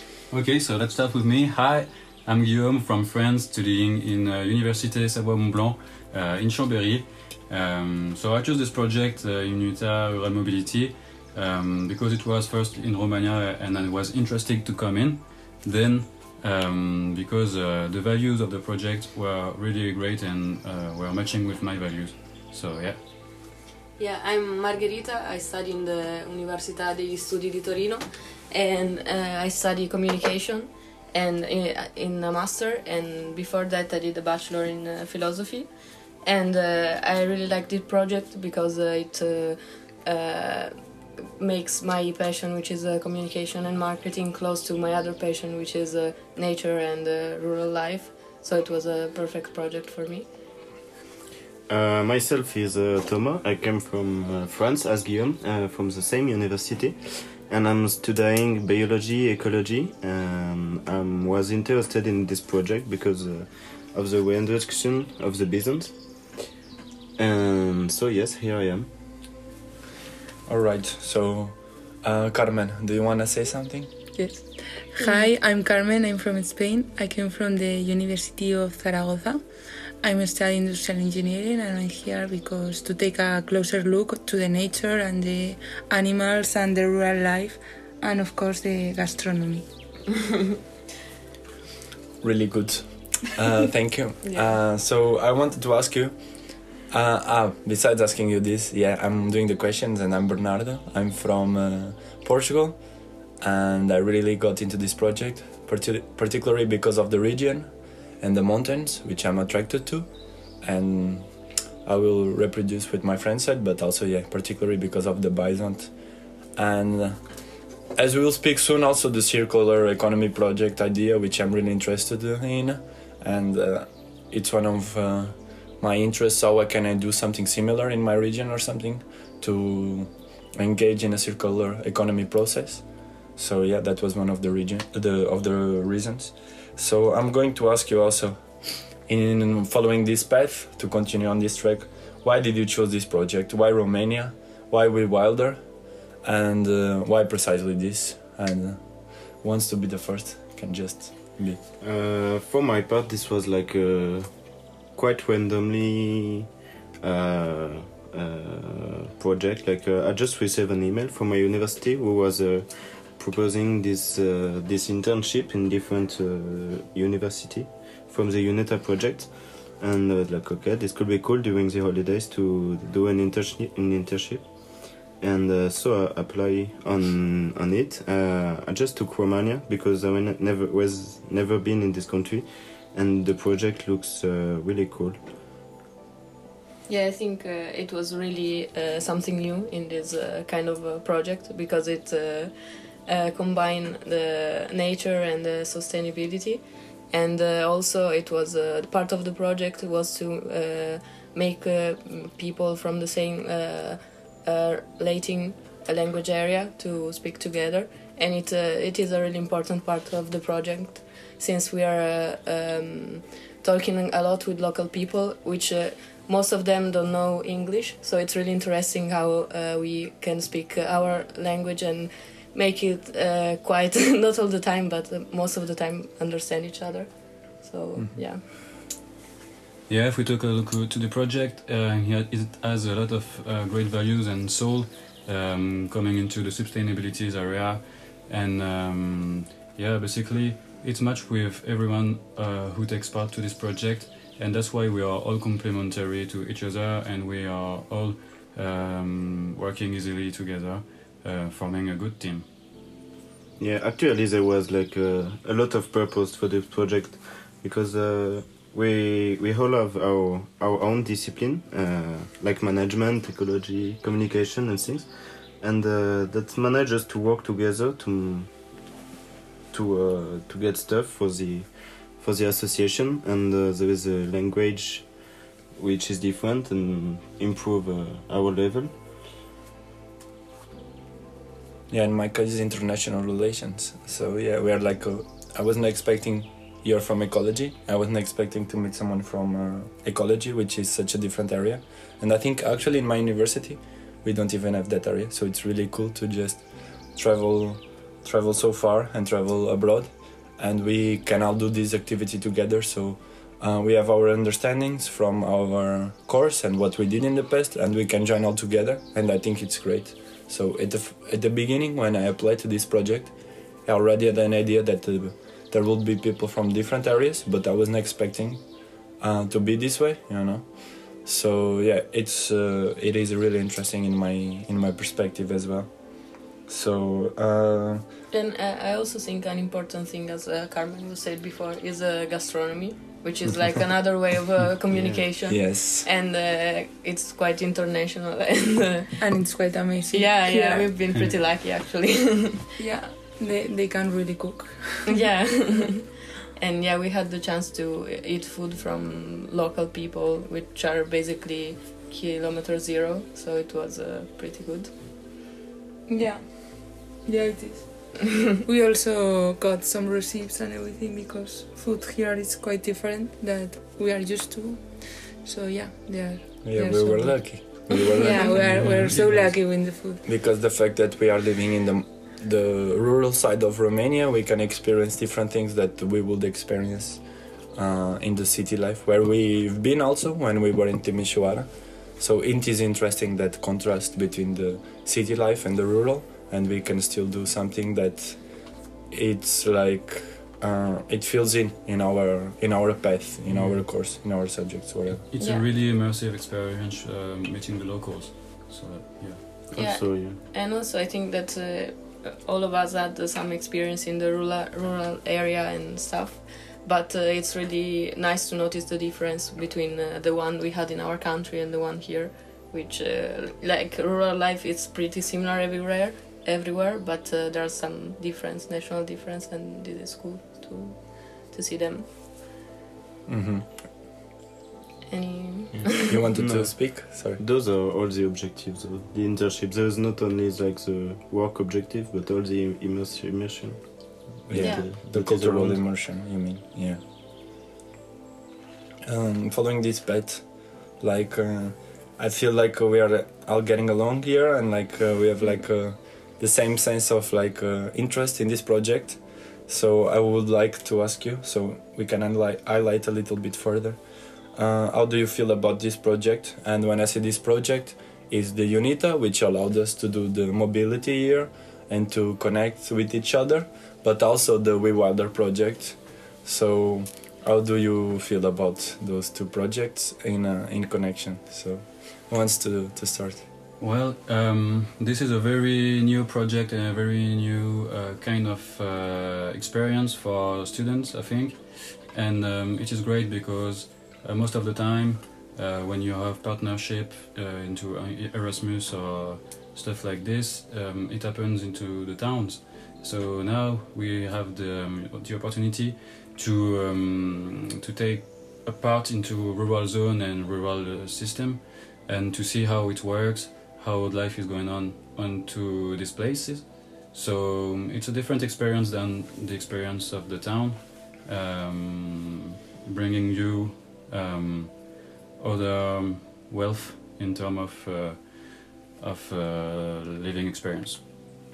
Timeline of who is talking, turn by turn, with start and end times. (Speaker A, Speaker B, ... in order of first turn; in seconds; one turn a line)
Speaker A: 0.3-23.0
Speaker B: 24.0-50.3
Speaker C: 51.7-66.4
Speaker C: 67.2-68.9
Speaker D: 70.5-73.9
Speaker B: 74.2-75.3
Speaker E: 74.3-79.5
Speaker E: 80.0-89.7
Speaker D: 92.2-117.4
Speaker B: 94.2-94.6
Speaker D: 118.0-151.6
Speaker C: 151.8-156.4
Speaker C: 157.0-185.2
Speaker B: 186.9-228.4
Speaker D: 228.0-228.2
Speaker A: 229.9-252.4
Speaker C: 253.6-268.8
Speaker C: 269.7-279.0
Speaker D: 281.9-328.0
Speaker B: 328.3-339.6
Speaker C: 334.9-335.2
Speaker D: 335.5-336.1
Speaker E: 339.2-341.0
Speaker B: 340.1-342.6
Speaker E: 342.8-345.2
Speaker B: 345.1-354.9
Speaker E: 356.1-370.2
Speaker D: 366.6-369.0
Speaker A: 368.6-369.5
Speaker D: 369.8-395.2
Speaker A: 393.5-393.8
Speaker A: 395.2-399.7
Speaker B: 395.4-395.6
Speaker C: 399.7-400.4
Speaker B: 399.8-422.1
Speaker D: 423.3-423.9
Speaker B: 425.1-426.2
Speaker C: 425.7-435.8
Speaker D: 426.1-427.4
Speaker D: 434.5-437.0
Speaker B: 434.6-434.9
Speaker D: 439.1-473.4
Speaker A: 473.8-521.0